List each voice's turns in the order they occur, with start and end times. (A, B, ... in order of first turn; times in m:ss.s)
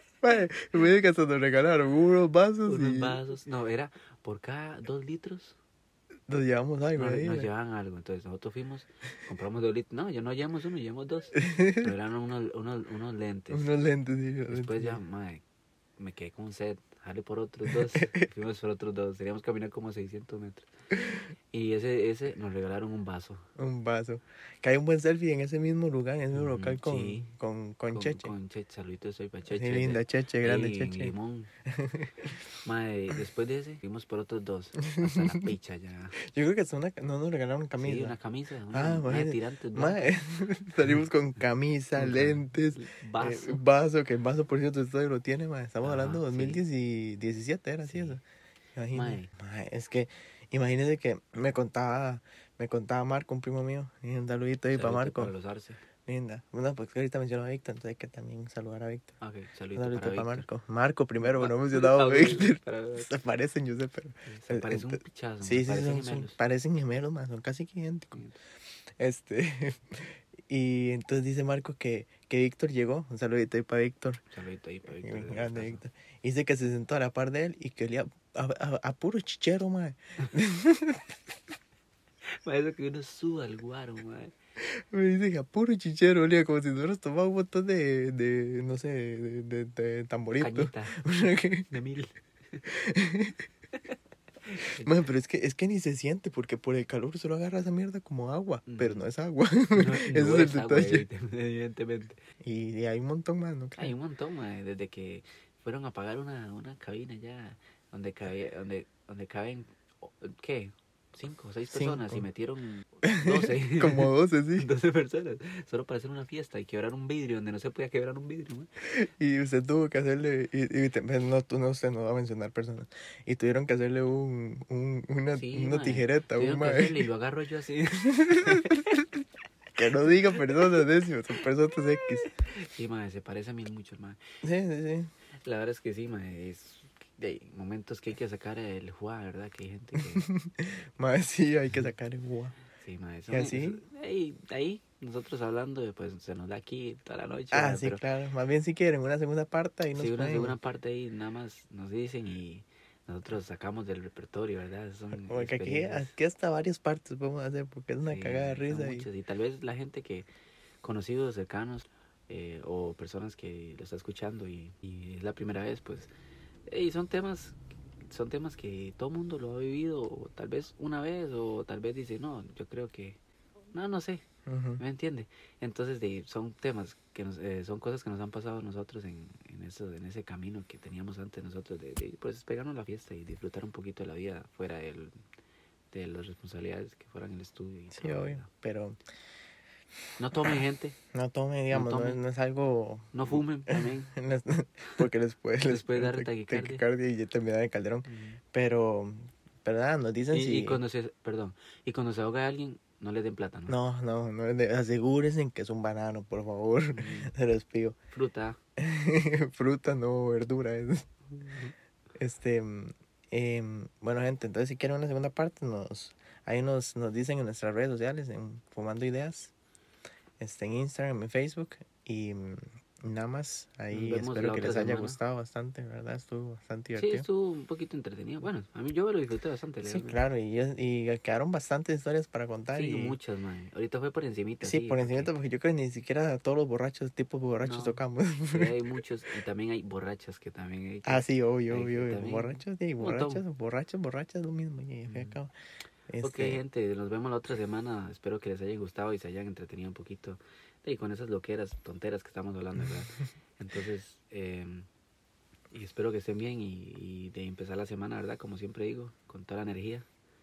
0:00.2-0:03.2 A
0:02.7-0:05.6 B
0:06.3-0:07.5 A
0:06.9-0:13.7 B
0:11.4-0:11.9 A
0:13.5-0:15.0 A
0:14.5-0:15.4 B
0:16.0-0:23.4 B
0:23.6-0:28.3 A
0:26.3-0:27.3 B
0:27.9-0:31.5 B
0:29.5-0:31.1 A
0:31.6-0:32.3 A
0:32.6-0:36.2 B
0:34.8-0:35.5 A
0:36.2-0:38.2 A
0:37.8-0:40.2 B
0:38.7-0:48.2 A
0:42.0-0:43.6 B
0:45.8-0:46.6 B
0:47.8-0:48.2 B
0:48.8-0:55.3 A
0:48.9-0:49.3 B
0:54.7-0:55.8 B
0:56.0-0:59.1 A
0:59.2-1:00.4 B
0:59.7-1:08.2 A
1:01.2-1:03.1 B
1:04.3-1:06.4 B
1:08.1-1:08.4 B
1:09.0-1:14.2 A
1:14.3-1:15.8 B
1:15.0-1:21.1 A
1:22.4-1:24.3 B
1:24.6-1:31.7 A
1:30.4-1:31.0 B
1:31.7-1:32.6 B
1:32.6-1:33.4 A
1:34.5-1:34.9 B
1:34.8-1:41.0 A
1:38.7-1:39.0 B
1:39.7-1:42.2 B
1:42.4-1:43.9 A
1:43.8-1:58.7 B
1:51.7-1:52.2 A
1:53.0-1:54.7 A
1:58.8-2:07.0 A
2:05.3-2:08.9 B
2:08.1-2:08.7 A
2:09.7-2:12.3 A
2:10.5-2:10.8 B
2:12.2-2:14.2 B
2:14.4-2:15.1 A
2:15.4-2:20.3 B
2:20.0-2:22.6 A
2:22.8-2:28.0 B
2:23.3-2:23.8 A
2:27.5-2:30.6 A
2:29.9-2:36.1 B
2:35.2-2:39.1 A
2:38.0-2:40.3 B
2:40.8-2:46.1 B
2:46.7-2:53.2 B
2:53.7-2:54.2 B
2:54.4-2:54.8 A
2:54.8-3:05.1 B
3:05.9-3:08.5 B
3:08.0-3:09.0 A
3:10.2-3:11.0 B
3:11.1-3:20.8 A
3:11.7-3:12.2 B
3:13.1-3:14.1 B
3:15.6-3:16.8 B
3:18.0-3:18.4 B
3:20.3-3:23.8 B
3:23.7-3:28.0 A
3:26.9-3:27.3 B
3:28.1-3:28.6 B
3:28.8-3:31.1 A
3:31.4-3:31.7 B
3:32.2-3:39.5 A
3:40.4-3:47.2 A
3:43.9-3:45.2 B
3:46.9-3:50.2 B
3:49.8-3:53.2 A
3:52.7-3:55.3 B
3:54.6-3:59.0 A
3:57.6-4:03.4 B
4:01.0-4:05.5 A
4:05.1-4:05.4 B
4:06.1-4:06.6 A
4:06.2-4:14.9 B
4:15.7-4:20.1 B